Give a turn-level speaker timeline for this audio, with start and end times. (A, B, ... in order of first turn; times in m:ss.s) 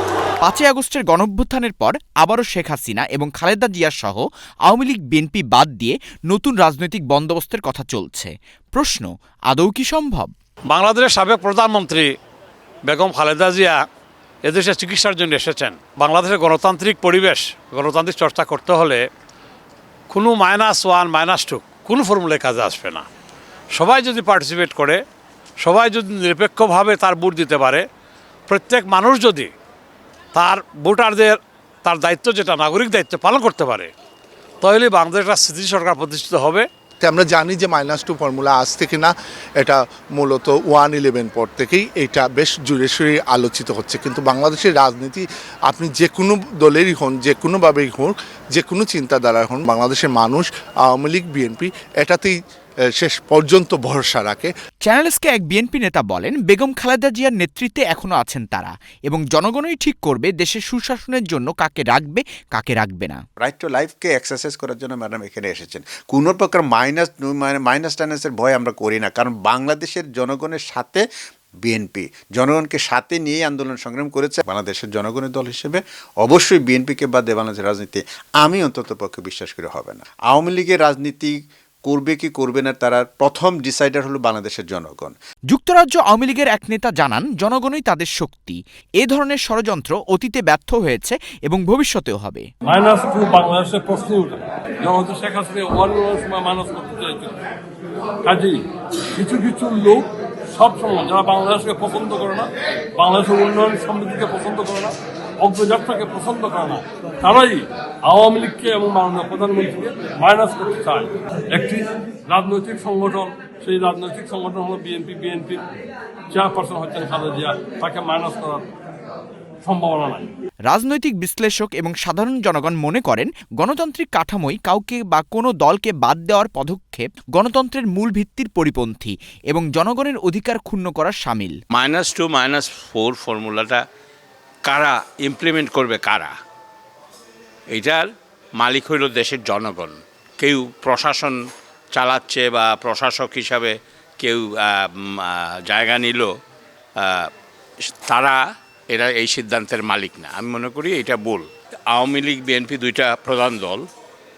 0:00.4-0:10.3 A
0:10.7-0:12.2 B
0:12.8-0:13.9 B
0:14.4-0:19.1 B
0:20.1-0:23.1 B
0:23.7-0:25.0 B
0:25.6-0:27.9 B
0:28.5-0:29.5 B
0:30.3-0:33.9 B
0:34.6-0:36.7 B
0:37.0-0:52.4 C
0:53.0-0:54.5 C
0:54.8-1:03.2 A
1:03.4-1:11.0 D
1:11.6-1:21.3 D
1:21.9-1:25.2 D
1:25.5-1:32.5 A
1:32.7-1:37.4 E
1:38.2-1:38.6 E
1:39.2-1:55.6 E
1:56.3-1:58.6 E
1:59.6-2:00.3 E
2:00.7-2:11.6 A
2:11.7-2:13.8 F
2:14.6-2:16.3 F
2:17.7-2:18.1 F
2:18.6-2:21.4 F
2:21.9-2:26.3 F
2:27.0-2:27.3 F
2:28.0-2:28.4 F
2:28.9-2:33.8 F